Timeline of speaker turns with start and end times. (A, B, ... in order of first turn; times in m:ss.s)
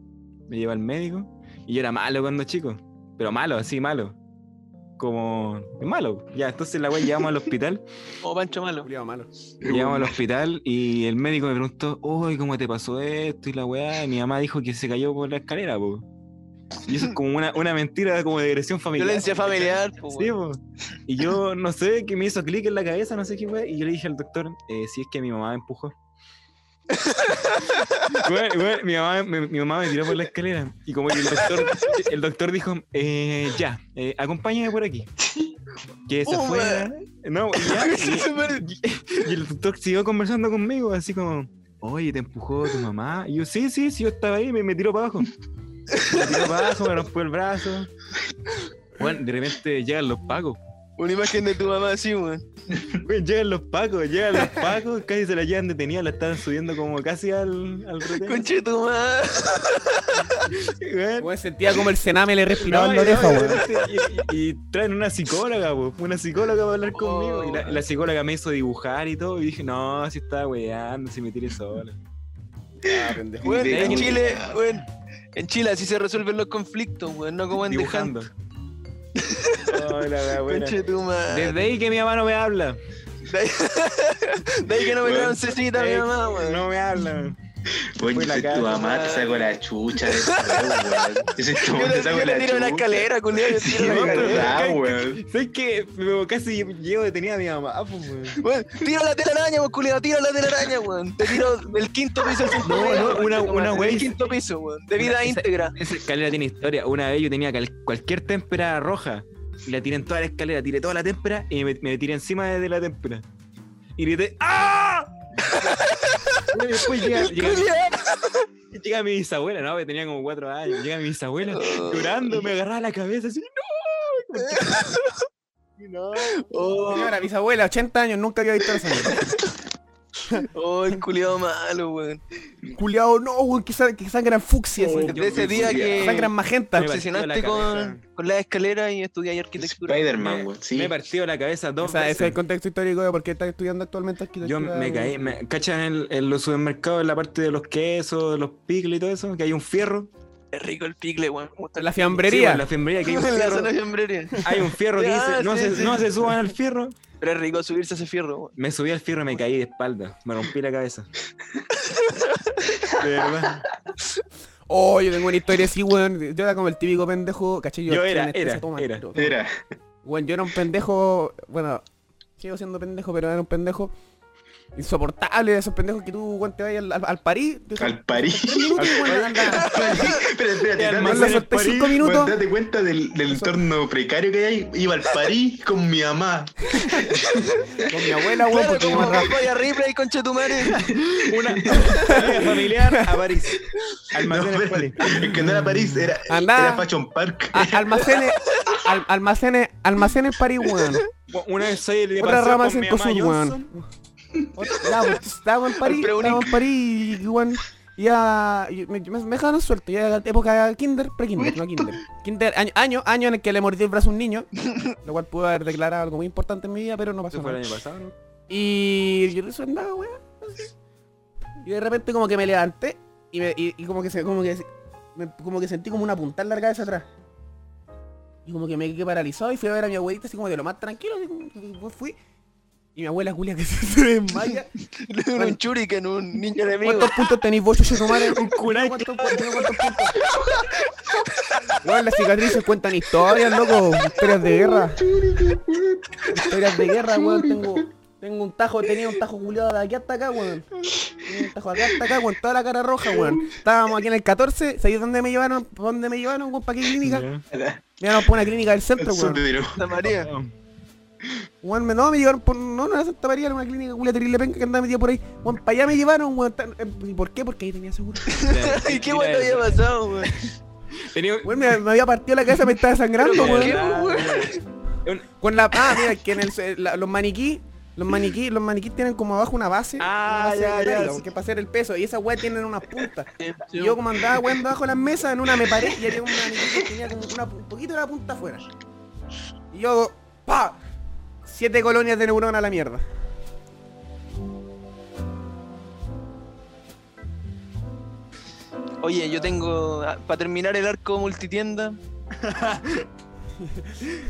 0:00.5-0:04.2 A
0:05.0-0:07.8 A
0:08.2-0:08.9 B
0:08.8-0:09.3 C
0:09.6-0:10.2 D
0:09.6-0:16.1 A
0:16.9-0:26.0 A
0:19.0-0:20.3 B
0:26.9-0:28.2 B
0:28.1-0:35.1 A
0:31.3-0:31.9 B
0:35.2-0:35.6 D
0:36.1-0:45.3 A
0:36.2-0:36.9 B
0:37.6-0:38.6 B
0:45.9-0:46.3 B
0:46.1-0:47.9 A
0:49.0-0:50.6 A
0:51.0-0:52.4 B
0:53.0-0:58.4 A
0:58.1-1:00.5 B
1:00.5-1:01.3 A
1:01.2-1:03.6 C
1:02.6-1:12.0 A
1:06.9-1:07.8 B
1:12.8-1:13.7 C
1:12.9-1:14.6 D
1:13.4-1:18.2 B
1:13.7-1:14.3 A
1:17.6-1:18.3 A
1:19.2-1:21.7 B
1:19.7-1:20.8 A
1:21.3-1:22.8 A
1:23.3-1:26.6 B
1:25.0-1:25.4 D
1:25.7-1:27.4 A
1:27.7-1:35.2 D
1:28.1-1:29.1 A
1:28.7-1:31.0 B
1:31.6-1:34.6 B
1:33.8-1:38.4 A
1:38.4-1:45.8 B
1:42.6-1:44.2 A
1:45.0-1:53.2 A
1:54.0-1:55.2 A
1:55.5-1:58.5 B
1:56.5-1:57.7 A
1:58.7-2:04.8 A
2:01.5-2:02.3 B
2:04.4-2:05.2 B
2:05.8-2:06.4 A
2:06.2-2:07.2 B
2:06.9-2:09.2 C
2:09.0-2:09.5 B
2:10.4-2:12.2 B
2:12.7-2:16.9 C
2:14.8-2:16.1 D
2:14.9-2:16.0 A
2:15.1-2:20.1 B
2:16.8-2:18.0 A
2:19.6-2:20.9 D
2:20.2-2:22.4 A
2:21.8-2:25.4 C
2:24.4-2:30.1 A
2:30.5-2:32.2 B
2:31.8-2:32.7 C
2:32.1-2:33.8 A
2:33.0-2:34.4 B
2:34.4-2:37.0 A
2:35.0-2:36.0 B
2:37.2-2:38.5 B
2:38.6-2:41.1 A
2:41.8-2:42.7 B
2:43.0-2:43.6 A
2:44.7-2:49.4 C
2:47.9-2:49.1 A
2:49.2-2:49.6 D
2:50.0-2:51.8 C
2:52.4-2:53.9 C
2:54.8-3:00.0 C
2:57.8-3:01.4 D
2:59.1-3:00.3 B
3:00.8-3:02.0 A
3:01.0-3:02.4 C
3:02.0-3:07.7 D
3:03.3-3:03.6 C
3:07.9-3:09.3 C
3:08.5-3:10.8 B
3:10.8-3:12.0 D
3:11.2-3:16.1 A
3:14.1-3:18.1 D
3:16.3-3:16.9 C
3:17.5-3:21.1 C
3:21.3-3:23.7 A
3:22.2-3:23.8 C
3:24.6-3:34.5 C
3:25.8-3:26.6 B
3:31.4-3:32.0 D
3:35.0-3:37.6 C
3:37.3-3:38.2 A
3:38.5-3:40.7 C
3:41.6-3:47.1 C
3:48.4-3:52.2 C
3:53.0-3:54.7 C
3:55.0-3:57.2 B
3:56.8-4:00.2 C
3:58.3-3:59.7 A
4:00.3-4:00.8 B
4:01.8-4:05.0 C
4:04.8-4:07.8 D
4:06.3-4:17.3 C
4:13.1-4:13.5 D
4:17.0-4:17.4 A
4:17.5-4:17.9 D
4:18.0-4:19.4 C
4:19.0-4:19.8 D
4:19.8-4:20.3 B
4:20.0-4:20.5 A
4:21.6-4:28.6 C
4:28.3-4:30.5 B
4:28.5-4:29.7 A
4:31.0-4:31.8 A
4:31.4-4:33.8 C
4:33.2-4:34.6 B
4:33.3-4:35.3 A
4:35.4-4:48.6 C
4:40.0-4:41.2 A
4:43.4-4:44.0 B
4:49.7-4:50.8 C
4:51.4-4:53.0 C
4:59.0-5:02.0 B
5:02.4-5:03.1 A
5:03.6-5:04.1 C